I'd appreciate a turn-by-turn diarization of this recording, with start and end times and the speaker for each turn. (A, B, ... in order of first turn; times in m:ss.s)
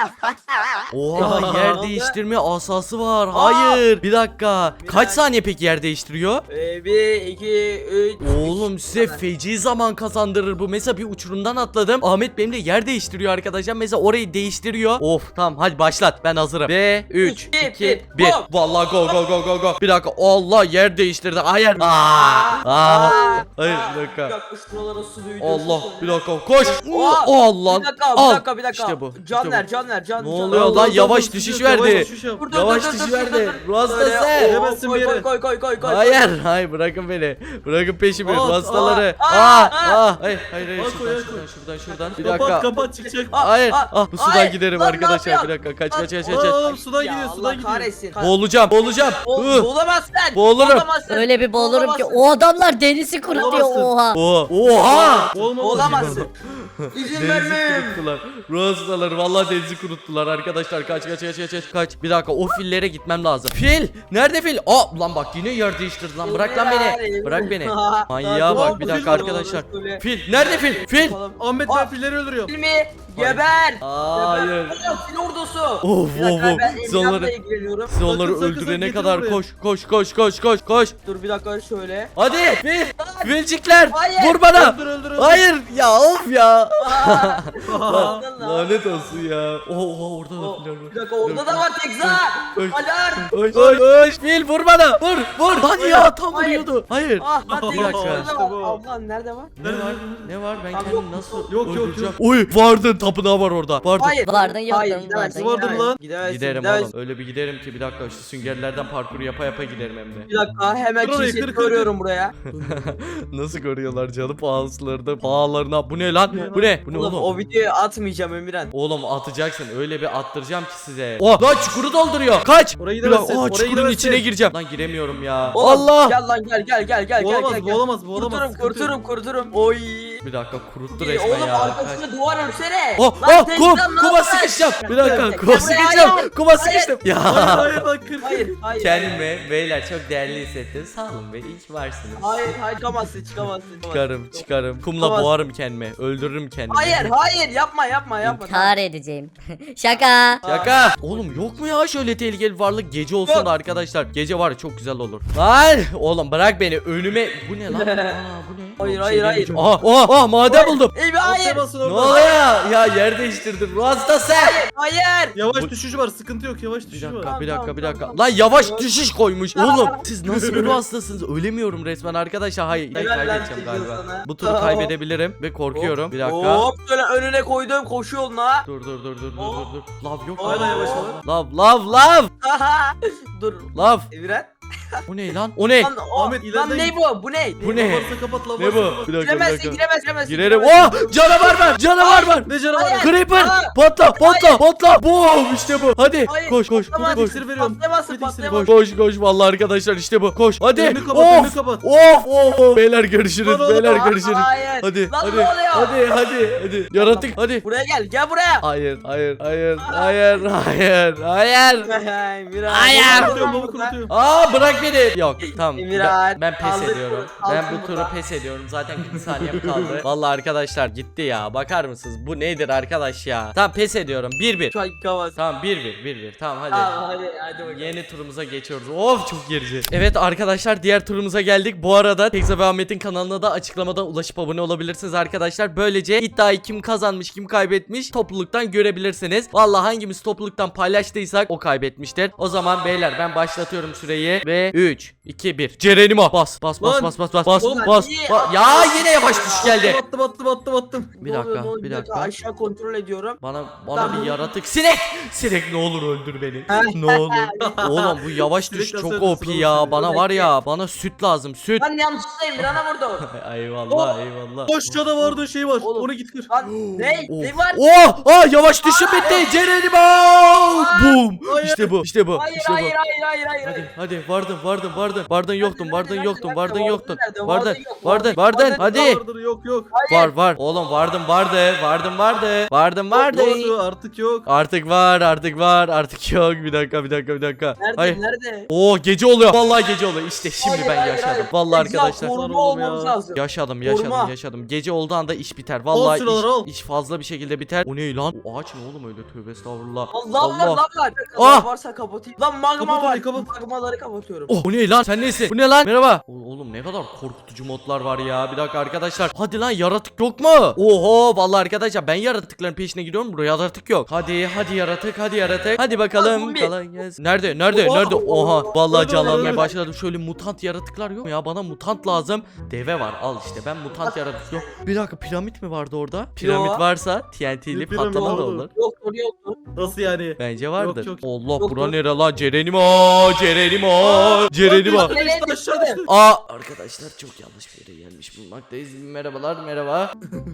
0:00.1-0:02.2 A
0:00.9-0:06.4 B
0:01.2-0:01.8 C
0:03.3-0:03.8 A
0:04.8-0:05.2 A
0:06.5-0:09.2 A
0:08.2-0:24.3 B
0:17.2-0:18.5 A
0:21.8-0:31.1 A
0:25.4-0:29.6 B
0:30.2-0:34.6 B
0:30.5-0:32.5 C
0:31.9-0:36.3 A
0:34.4-0:35.3 C
0:35.8-0:42.7 B
0:38.2-0:39.0 C
0:38.9-0:40.0 A
0:40.7-0:41.5 C
0:42.1-0:48.3 A
0:42.2-0:43.4 C
0:43.4-0:46.6 B
0:46.2-0:47.9 C
0:48.2-0:49.7 B
0:49.2-0:52.3 A
0:50.3-0:50.9 B
0:51.1-0:54.2 D
0:53.3-0:53.8 A
0:53.3-0:53.9 C
0:54.1-1:11.2 B
0:54.7-0:56.3 A
0:55.3-0:56.3 C
0:56.9-0:58.0 A
1:06.2-1:11.9 A
1:08.3-1:09.4 C
1:11.4-1:12.5 C
1:12.5-1:18.0 A
1:13.2-1:14.8 B
1:15.8-1:17.3 B
1:17.9-1:21.0 B
1:18.0-1:19.4 C
1:21.0-1:22.1 A
1:22.2-1:38.3 B
1:23.0-1:23.3 A
1:23.9-1:24.4 A
1:24.5-1:25.4 C
1:26.8-1:29.0 A
1:27.7-1:28.2 C
1:30.4-1:33.8 A
1:35.7-1:36.1 C
1:36.3-1:36.7 A
1:37.2-1:39.6 A
1:37.5-1:38.8 C
1:39.6-1:44.2 B
1:39.6-1:40.3 C
1:40.7-1:41.5 A
1:41.5-1:42.2 C
1:44.0-1:46.9 A
1:44.2-1:45.8 D
1:45.3-1:46.0 C
1:46.2-1:50.3 B
1:50.3-1:52.4 A
1:51.0-1:51.9 C
1:52.6-1:57.3 B
1:56.3-1:56.8 C
1:56.9-1:58.7 A
1:58.7-2:06.2 B
2:02.8-2:04.3 C
2:05.5-2:10.2 A
2:07.2-2:08.9 C
2:10.2-2:12.0 B
2:10.9-2:17.0 A
2:13.0-2:17.8 B
2:14.9-2:15.3 C
2:17.2-2:18.5 C
2:18.2-2:19.2 A
2:18.8-2:22.5 B
2:22.2-2:25.3 A
2:23.9-2:27.1 B
2:26.7-2:28.8 A
2:28.4-2:30.4 D
2:29.9-2:31.3 A
2:30.4-2:40.9 B
2:37.7-2:38.2 A
2:38.8-2:39.6 A
2:40.5-2:42.5 A
2:41.2-2:42.3 C
2:41.8-2:44.6 B
2:44.3-2:45.4 A
2:45.4-2:47.3 C
2:46.9-2:56.7 B
2:47.2-2:49.0 A
2:49.6-2:50.0 A
2:50.3-2:50.8 C
2:52.9-2:54.9 A
2:55.7-2:58.7 A
2:58.6-3:02.3 B
2:59.4-2:59.7 A
3:00.4-3:01.2 A
3:00.4-3:01.2 C
3:02.4-3:05.0 A
3:03.7-3:04.1 B
3:05.1-3:05.9 B
3:05.8-3:07.8 A
3:06.2-3:07.0 C
3:07.6-3:17.4 B
3:07.6-3:09.1 C
3:09.1-3:14.6 A
3:12.5-3:13.2 C
3:16.3-3:18.7 A
3:17.0-3:18.7 C
3:18.6-3:27.6 B
3:20.7-3:21.8 C
3:23.4-3:24.0 C
3:23.8-3:26.0 A
3:26.9-3:28.6 A
3:28.6-3:31.9 B
3:29.8-3:30.1 A
3:31.9-3:34.0 A
3:32.7-3:33.4 B
3:32.9-3:34.1 C
3:34.1-3:44.8 B
3:35.4-3:38.2 A
3:39.5-3:39.8 C
3:44.7-3:45.4 A
3:45.4-3:46.9 B
3:46.7-3:47.9 A
3:47.7-4:10.0 B
4:06.8-4:07.9 C
4:07.6-4:09.8 A
4:09.6-4:11.1 C
4:11.2-4:13.4 A
4:11.2-4:12.3 B
4:13.4-4:21.9 B
4:13.9-4:14.4 A
4:16.7-4:17.8 A
4:17.6-4:20.2 C
4:20.1-4:20.5 A
4:21.8-4:23.2 A
4:23.2-4:24.7 B
4:23.9-4:26.5 C
4:25.8-4:28.1 A
4:26.7-4:33.0 B
4:28.8-4:29.5 A
4:30.7-4:31.2 A
4:31.4-4:32.0 C
4:32.4-4:33.9 A
4:33.6-4:39.2 B
4:35.6-4:39.1 A
4:38.8-4:39.9 C
4:39.9-4:40.3 A
4:40.1-4:43.7 B
4:43.1-4:44.5 C
4:44.5-4:52.4 B
4:47.8-4:48.7 A
4:50.6-4:54.3 A
4:52.3-4:53.2 C
4:53.4-5:00.8 B
4:55.9-4:56.7 C
5:00.1-5:04.6 A
5:01.4-5:01.7 B
5:02.8-5:03.5 C
5:04.5-5:28.7 B
5:16.2-5:16.8 A
5:17.7-5:19.8 A
5:18.9-5:19.7 C
5:23.9-5:24.7 A
5:26.4-5:26.8 A
5:27.7-5:28.7 C
5:28.2-5:29.6 A
5:29.8-5:31.2 C
5:30.4-5:35.2 B
5:31.6-5:32.0 A
5:34.0-5:36.1 C
5:34.9-5:36.0 A
5:36.1-5:40.1 B